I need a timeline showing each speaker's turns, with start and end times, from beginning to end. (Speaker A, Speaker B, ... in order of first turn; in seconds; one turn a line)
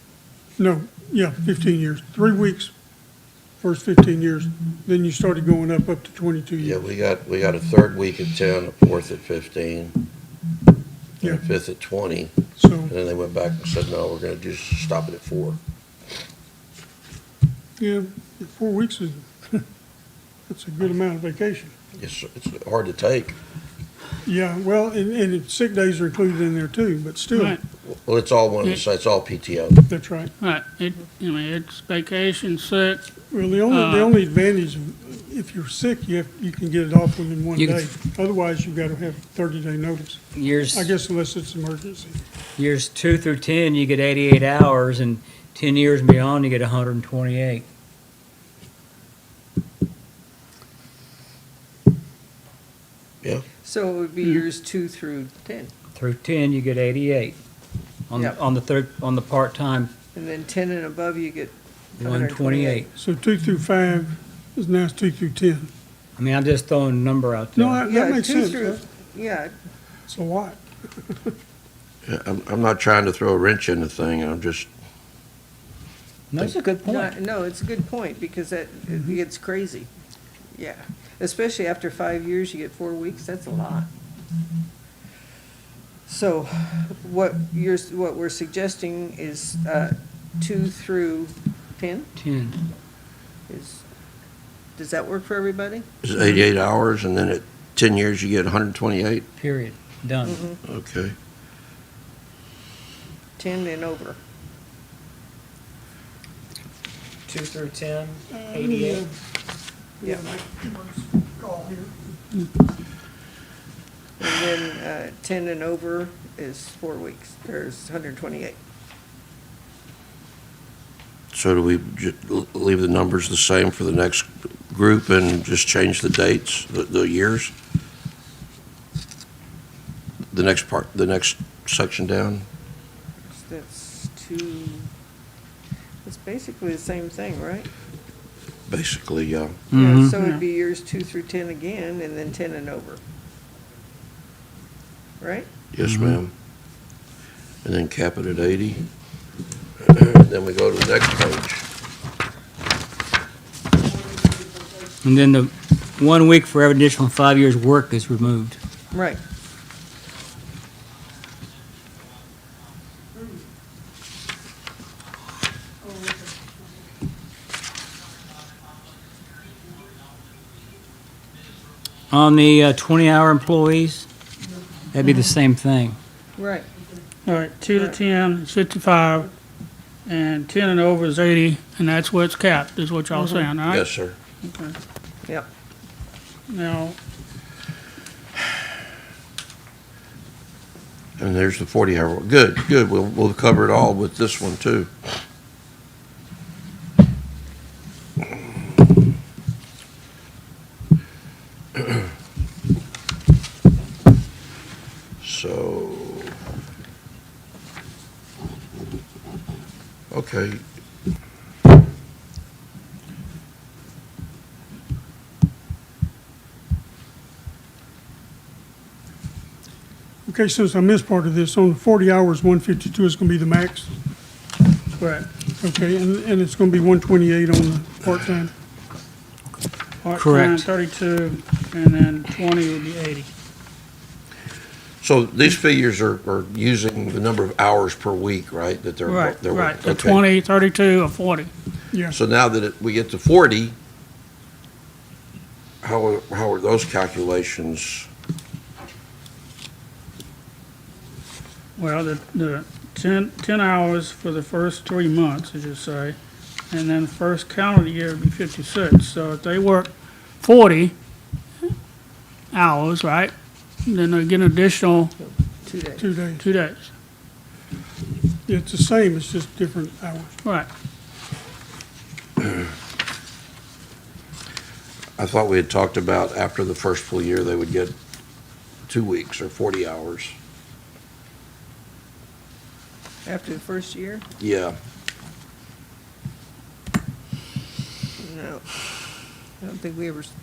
Speaker A: 0.6-2.7
Speaker A: 3.6-6.8
Speaker B: 6.6-10.0
Speaker B: 11.2-15.6
Speaker A: 12.6-12.9
Speaker A: 17.8-19.6
Speaker A: 20.5-21.7
Speaker B: 22.0-23.4
Speaker A: 24.2-27.6
Speaker C: 27.3-27.6
Speaker B: 27.8-29.8
Speaker A: 29.9-30.3
Speaker C: 30.4-33.0
Speaker A: 33.3-42.2
Speaker C: 33.7-34.1
Speaker D: 37.5-37.9
Speaker D: 40.3-40.9
Speaker D: 42.6-47.7
Speaker E: 53.6-55.7
Speaker D: 56.0-57.4
Speaker D: 58.1-59.9
Speaker E: 60.1-62.9
Speaker D: 62.0-62.9
Speaker A: 63.0-65.7
Speaker D: 66.2-67.9
Speaker A: 67.5-68.8
Speaker E: 67.9-69.5
Speaker A: 70.1-71.3
Speaker B: 72.0-74.7
Speaker D: 76.3-77.2
Speaker E: 76.8-79.9
Speaker E: 80.5-83.9
Speaker E: 86.1-92.1
Speaker D: 92.2-92.6
Speaker E: 93.5-93.8
Speaker E: 94.8-95.9
Speaker B: 96.0-99.3
Speaker D: 99.4-100.4
Speaker E: 100.2-100.6
Speaker B: 100.6-101.2
Speaker E: 103.4-104.2
Speaker D: 107.3-109.0
Speaker A: 108.3-109.1
Speaker A: 110.0-111.9
Speaker E: 114.2-118.6
Speaker B: 121.3-127.5
Speaker B: 130.3-132.5
Speaker E: 133.3-134.9
Speaker E: 136.0-137.7
Speaker B: 138.7-139.6
Speaker D: 139.7-140.2
Speaker E: 139.7-143.0
Speaker C: 140.1-140.4
Speaker E: 145.2-145.5
Speaker B: 145.7-146.3
Speaker D: 145.8-146.2
Speaker B: 147.6-148.8
Speaker B: 149.8-151.6
Speaker D: 155.0-158.6
Speaker E: 158.9-159.2
Speaker D: 172.1-174.1
Speaker D: 174.9-176.0
Speaker E: 176.4-176.7
Speaker C: 177.2-179.3
Speaker C: 180.1-183.9
Speaker B: 183.7-184.2
Speaker C: 184.5-184.8
Speaker C: 186.5-187.0
Speaker B: 191.2-194.9
Speaker B: 205.2-206.4
Speaker B: 210.1-210.6
Speaker A: 220.3-223.9
Speaker C: 225.0-225.3
Speaker A: 225.6-228.5
Speaker C: 230.0-233.3
Speaker D: 230.2-230.7
Speaker B: 235.0-240.2
Speaker C: 239.1-241.5
Speaker B: 242.1-243.8
Speaker B: 245.8-248.1
Speaker C: 251.8-256.2
Speaker C: 256.7-260.9
Speaker C: 262.5-263.3
Speaker C: 263.9-265.1
Speaker E: 265.2-266.1
Speaker A: 266.0-266.4
Speaker C: 266.4-266.9
Speaker A: 268.5-270.3
Speaker B: 275.2-277.9
Speaker B: 278.9-280.3
Speaker E: 283.2-284.2
Speaker B: 284.4-284.8
Speaker E: 288.2-288.6
Speaker E: 289.6-290.3